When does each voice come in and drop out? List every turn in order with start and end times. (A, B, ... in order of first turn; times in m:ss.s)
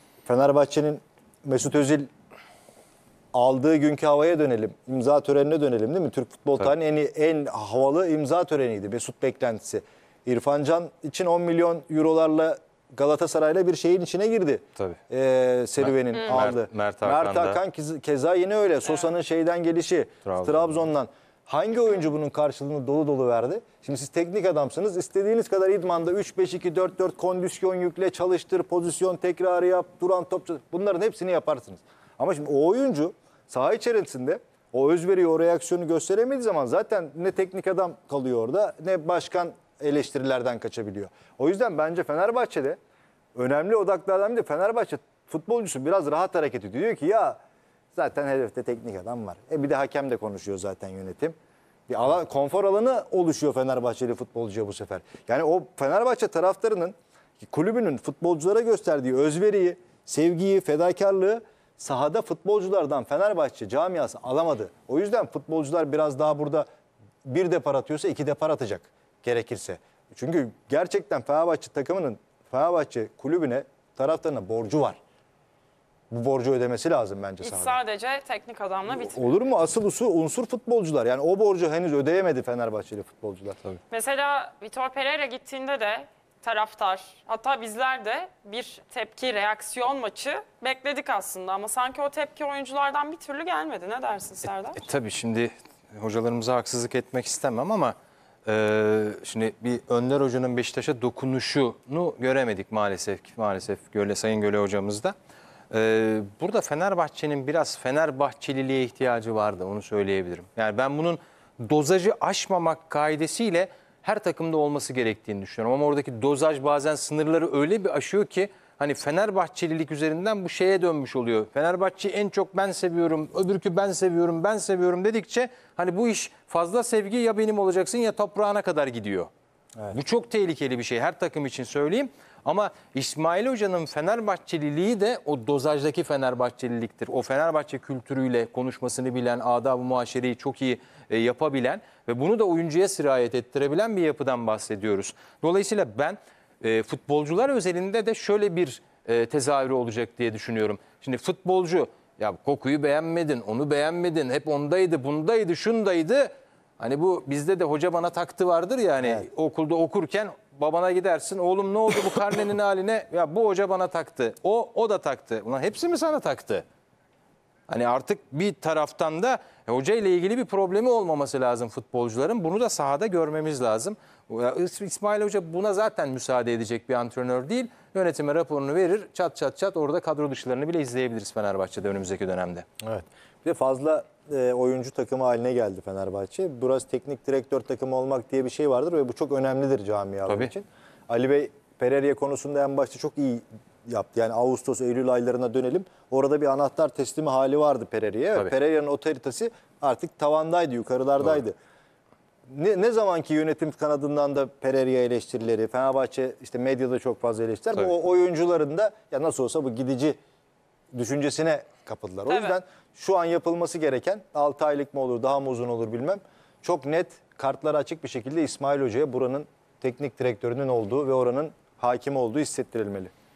0:00.2-0:02.1 A
0:03.3-0:42.8 A
0:15.8-0:17.6 B
0:20.2-0:20.7 B
0:43.4-0:47.4 A
0:47.9-0:51.4 A
0:51.9-1:06.7 A
1:07.2-1:15.0 A
1:16.1-1:17.8 A
1:17.4-1:19.3 C
1:18.9-1:23.6 A
1:23.9-1:34.8 C
1:34.8-1:45.1 B
1:45.7-2:09.3 B
2:09.9-2:46.6 B
2:39.0-2:39.3 A
2:47.7-3:02.7 B
3:02.8-3:21.6 A
3:10.3-3:10.5 B
3:22.5-3:30.2 A
3:30.9-3:43.1 A
3:32.3-3:32.6 C